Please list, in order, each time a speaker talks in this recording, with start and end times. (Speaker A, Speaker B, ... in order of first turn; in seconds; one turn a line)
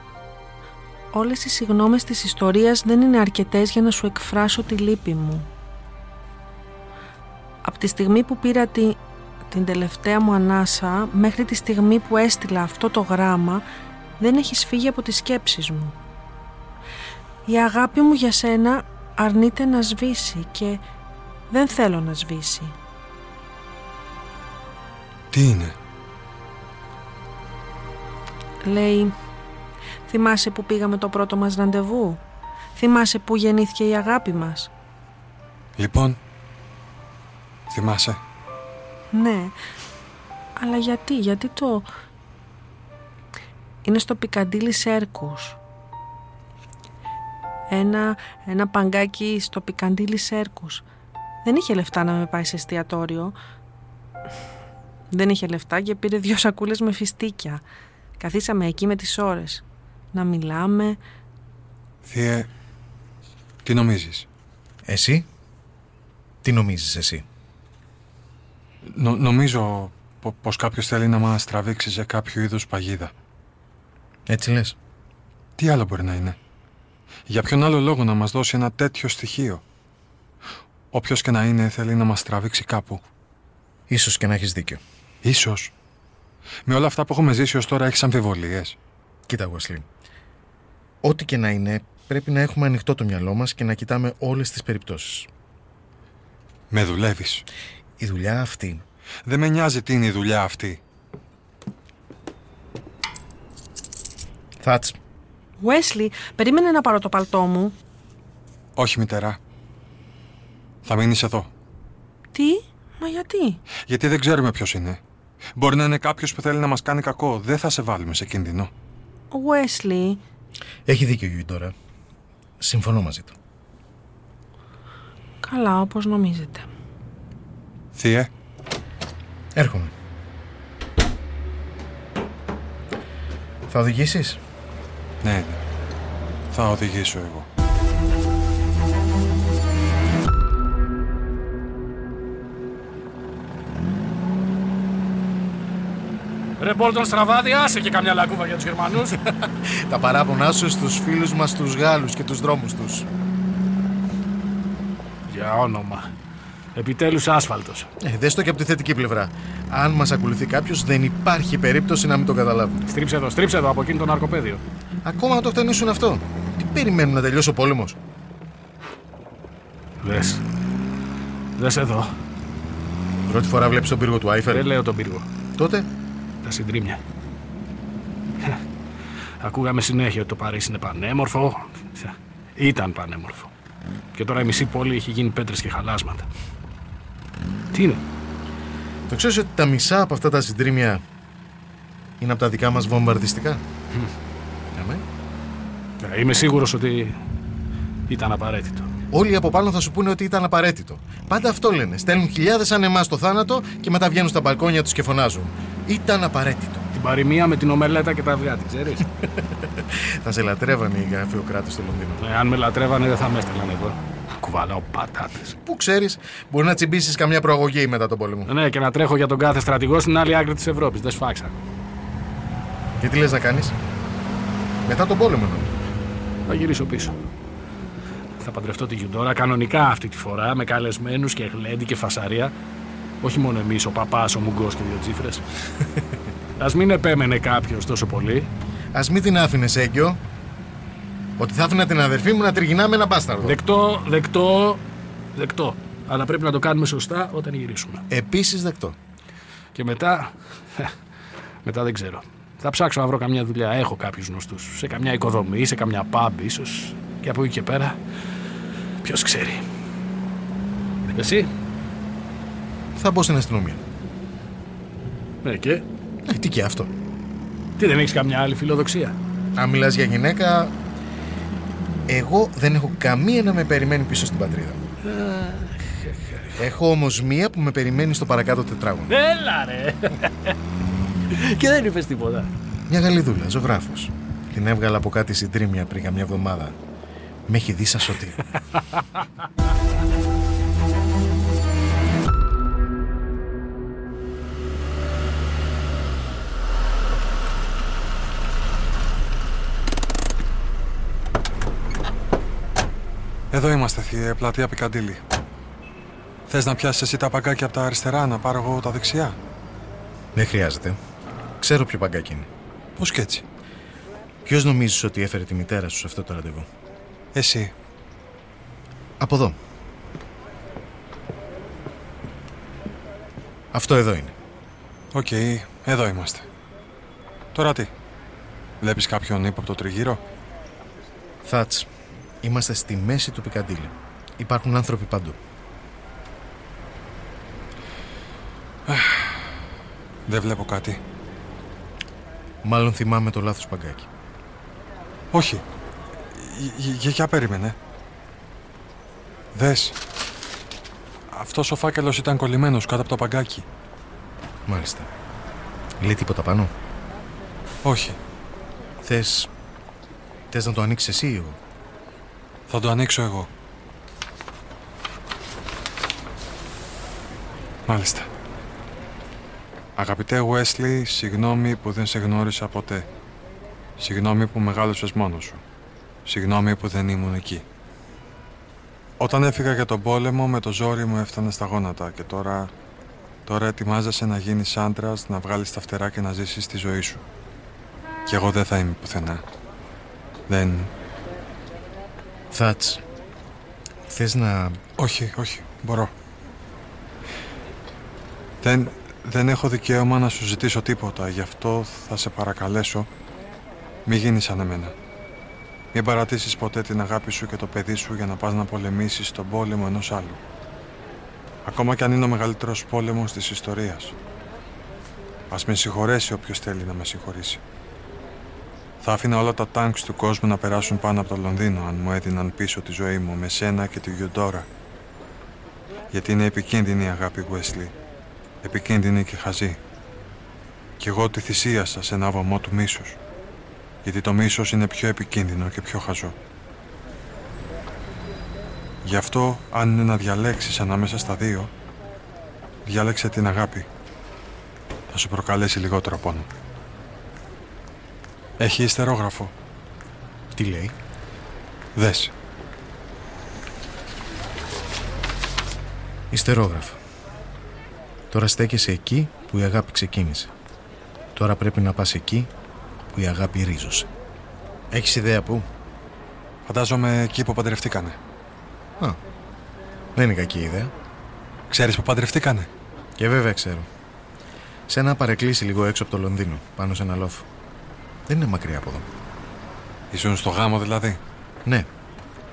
Speaker A: 1.1-5.5
Speaker A: 7.6-9.0
Speaker A: 9.5-13.6
Speaker A: 14.2-15.9
Speaker A: 17.4-20.8
Speaker A: 21.5-22.7
Speaker B: 25.3-25.7
Speaker A: 28.6-29.1
Speaker A: 30.1-32.2
Speaker A: 32.7-34.7
Speaker B: 35.8-36.2
Speaker B: 37.7-38.2
Speaker A: 39.1-39.5
Speaker A: 40.6-41.9
Speaker A: 43.8-45.6
Speaker A: 47.7-50.8
Speaker A: 51.4-53.4
Speaker A: 55.1-57.6
Speaker A: 58.2-61.0
Speaker B: 62.0-62.5
Speaker B: 63.6-64.2
Speaker C: 64.8-65.3
Speaker C: 66.4-67.2
Speaker B: 68.9-73.1
Speaker C: 74.3-74.8
Speaker B: 75.6-76.3
Speaker B: 77.3-79.6
Speaker B: 80.9-83.0
Speaker C: 83.9-84.8
Speaker B: 85.2-85.7
Speaker B: 86.7-88.8
Speaker C: 89.3-89.8
Speaker C: 91.0-95.3
Speaker B: 96.7-97.4
Speaker C: 98.0-98.8
Speaker B: 99.2-100.8
Speaker C: 104.6-105.0
Speaker A: 105.6-107.7
Speaker B: 108.8-109.4
Speaker B: 110.8-111.5
Speaker A: 112.3-113.6
Speaker B: 113.9-115.0
Speaker B: 115.5-118.7
Speaker A: 119.3-120.2
Speaker C: 120.8-121.7
Speaker C: 122.6-123.3
Speaker A: 125.4-126.7
Speaker B: 127.9-128.3
Speaker C: 129.6-129.9
Speaker C: 133.7-134.4
Speaker B: 135.2-135.6
Speaker B: 136.5-137.5
Speaker D: 146.6-149.2
Speaker C: 149.2-153.1
Speaker D: 155.3-156.1
Speaker D: 156.7-157.9
Speaker C: 158.0-162.8
Speaker D: 162.9-164.6
Speaker C: 165.0-168.0
Speaker D: 170.0-170.4
Speaker D: 171.6-172.1
Speaker C: 173.3-174.7
Speaker D: 174.5-175.3
Speaker C: 175.6-175.9
Speaker D: 176.4-177.0
Speaker D: 179.4-183.5
Speaker D: 184.1-186.3
Speaker D: 187.7-188.0
Speaker C: 189.1-191.0
Speaker C: 192.2-193.6
Speaker C: 194.7-195.0
Speaker D: 196.0-197.2
Speaker D: 198.1-198.9
Speaker C: 199.1-206.9
Speaker D: 206.9-209.1
Speaker C: 209.3-212.2
Speaker D: 212.2-215.5
Speaker C: 215.6-218.5
Speaker D: 218.5-221.5
Speaker C: 223.0-223.8
Speaker C: 224.8-225.7
Speaker D: 226.5-227.1
Speaker D: 228.4-232.5
Speaker D: 233.2-235.4
Speaker D: 236.6-238.5
Speaker C: 238.9-240.2
Speaker C: 241.4-243.6
Speaker D: 243.4-244.8
Speaker D: 245.3-248.0
Speaker C: 248.1-249.0
Speaker D: 249.7-250.9
Speaker D: 251.6-258.0
Speaker D: 259.0-259.6
Speaker D: 261.1-261.5
Speaker C: 262.9-263.8
Speaker D: 265.4-265.8
Speaker C: 266.2-266.9
Speaker D: 267.8-269.1
Speaker C: 269.6-270.7
Speaker C: 272.1-274.8
Speaker D: 275.0-276.5
Speaker C: 276.6-279.1
Speaker D: 279.1-280.6
Speaker D: 281.3-282.5
Speaker C: 282.9-286.8
Speaker C: 287.5-288.4
Speaker B: 303.5-305.2
Speaker B: 306.5-309.4
Speaker C: 310.3-311.0
Speaker C: 311.6-312.5
Speaker B: 313.0-313.4
Speaker C: 314.4-316.7
Speaker B: 317.3-317.7
Speaker C: 319.2-319.6
Speaker C: 323.7-324.3
Speaker B: 325.1-326.4
Speaker B: 327.5-327.9
Speaker B: 328.8-330.2
Speaker C: 331.4-331.9
Speaker C: 332.4-335.4
Speaker B: 338.9-339.4
Speaker B: 340.3-341.0
Speaker C: 342.6-344.1
Speaker B: 345.3-345.6
Speaker B: 346.3-347.8
Speaker B: 349.5-349.9
Speaker B: 351.3-353.6
Speaker C: 354.7-355.1
Speaker C: 356.0-356.7
Speaker B: 357.8-358.2
Speaker C: 359.0-359.5
Speaker C: 360.5-361.6
Speaker B: 362.7-363.5
Speaker B: 367.9-368.3
Speaker B: 370.0-373.1
Speaker B: 374.0-375.6
Speaker B: 376.2-377.6
Speaker B: 379.2-382.7
Speaker B: 383.5-387.2
Speaker B: 388.3-389.4
Speaker B: 390.5-390.9
Speaker C: 392.5-393.0
Speaker C: 394.1-394.8
Speaker B: 395.0-396.1
Speaker B: 398.6-403.1
Speaker B: 404.1-404.9
Speaker B: 405.9-410.4
Speaker B: 411.6-414.1
Speaker B: 415.5-417.6
Speaker B: 419.0-424.7
Speaker B: 426.1-427.9
Speaker B: 428.6-429.8
Speaker B: 431.0-433.2
Speaker B: 434.0-436.3
Speaker B: 439.0-441.7
Speaker B: 442.8-443.9
Speaker B: 445.1-446.5
Speaker B: 448.6-449.5
Speaker C: 450.5-450.9
Speaker B: 451.9-452.3
Speaker C: 456.3-457.0
Speaker C: 458.3-460.5
Speaker C: 461.3-462.5
Speaker C: 463.1-464.1
Speaker C: 464.9-465.6
Speaker B: 466.6-468.2
Speaker C: 470.1-470.9
Speaker B: 471.7-472.7
Speaker C: 473.2-473.9
Speaker C: 474.9-477.5
Speaker C: 478.3-479.1
Speaker B: 480.1-481.2